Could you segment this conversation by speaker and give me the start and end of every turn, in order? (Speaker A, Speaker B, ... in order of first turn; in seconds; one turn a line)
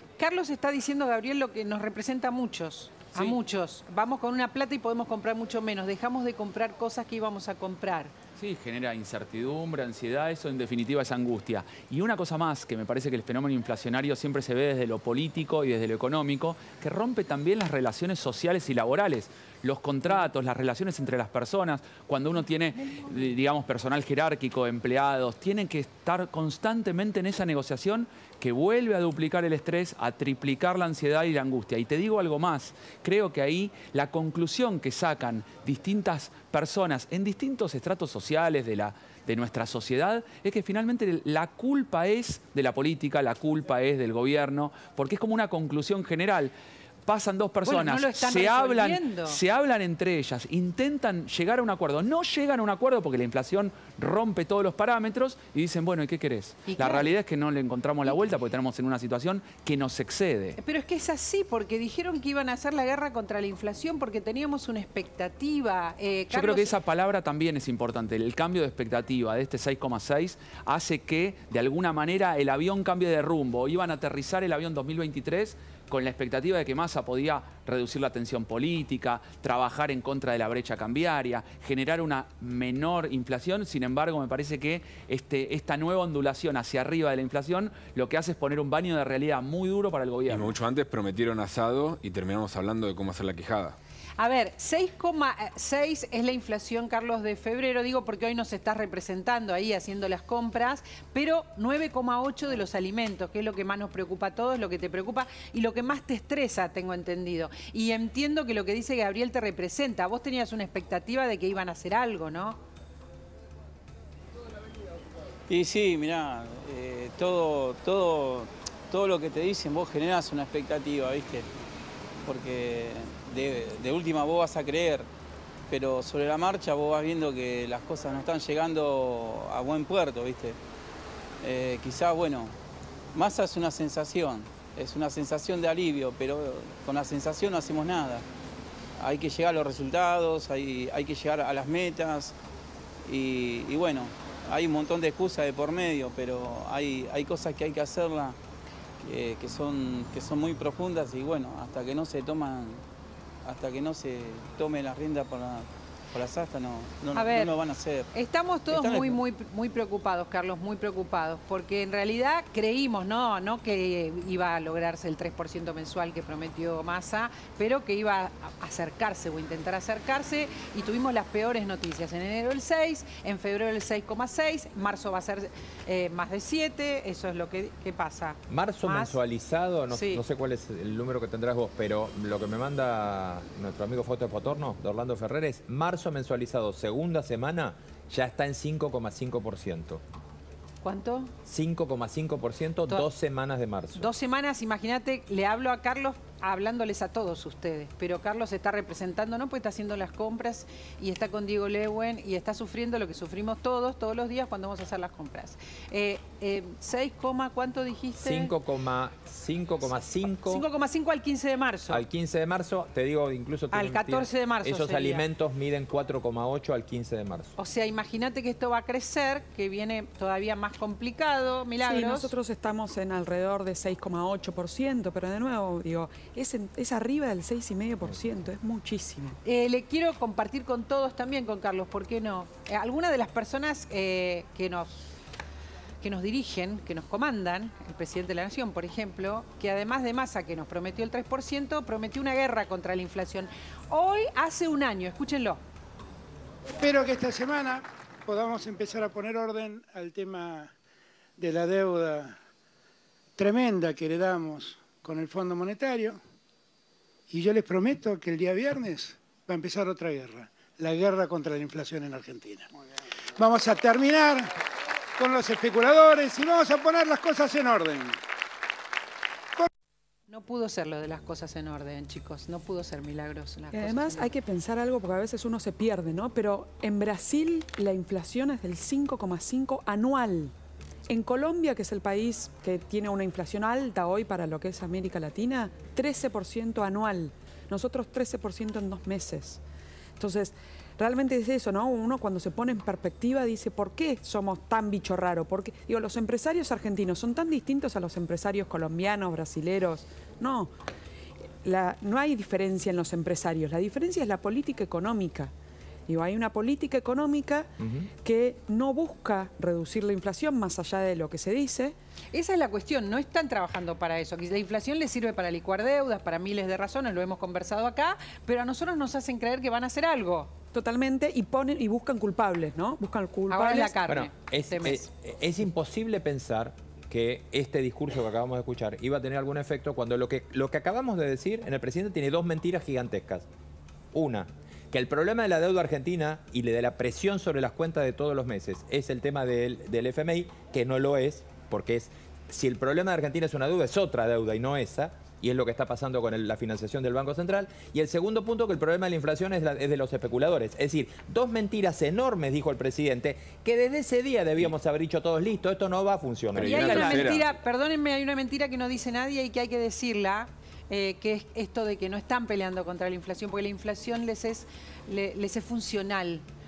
Speaker A: 0.2-8.1
Speaker B: 8.4-46.5
Speaker B: 47.1-60.6
Speaker A: 47.6-49.4
Speaker A: 56.7-57.1
Speaker A: 60.6-66.8
Speaker B: 66.3-90.6
Speaker C: 90.3-93.8
Speaker A: 94.2-112.6
Speaker D: 115.5-121.5
Speaker D: 122.2-125.1
Speaker D: 125.7-130.6
Speaker D: 131.4-132.6
Speaker D: 133.2-138.3
Speaker D: 139.0-142.3
Speaker D: 143.1-148.4
Speaker D: 149.0-152.8
Speaker D: 153.4-158.1
Speaker A: 157.2-157.5
Speaker A: 158.1-179.2
Speaker D: 158.7-159.2
Speaker E: 178.5-190.0
Speaker A: 179.9-180.2
Speaker A: 190.8-191.3
Speaker E: 191.5-194.1
Speaker A: 194.0-208.5
Speaker E: 208.2-210.7
Speaker A: 210.4-212.1
Speaker E: 211.9-217.5
Speaker A: 213.7-215.2
Speaker A: 217.6-222.3
Speaker F: 221.8-229.4
Speaker A: 229.4-235.0
Speaker A: 236.0-245.6
Speaker G: 246.8-250.7
Speaker G: 251.4-252.4
Speaker G: 253.4-256.2
Speaker G: 257.3-262.7
Speaker G: 263.4-264.5
Speaker G: 265.2-268.2
Speaker A: 270.3-274.3
Speaker F: 273.7-280.5
Speaker F: 281.1-289.6
Speaker F: 290.2-300.7
Speaker F: 301.6-305.5
Speaker F: 306.1-312.0
Speaker E: 307.8-308.1
Speaker A: 312.3-320.5
Speaker F: 320.7-324.0
Speaker A: 323.5-325.1
Speaker E: 324.1-333.5
Speaker E: 334.1-357.3
Speaker C: 356.5-357.4
Speaker A: 356.6-366.4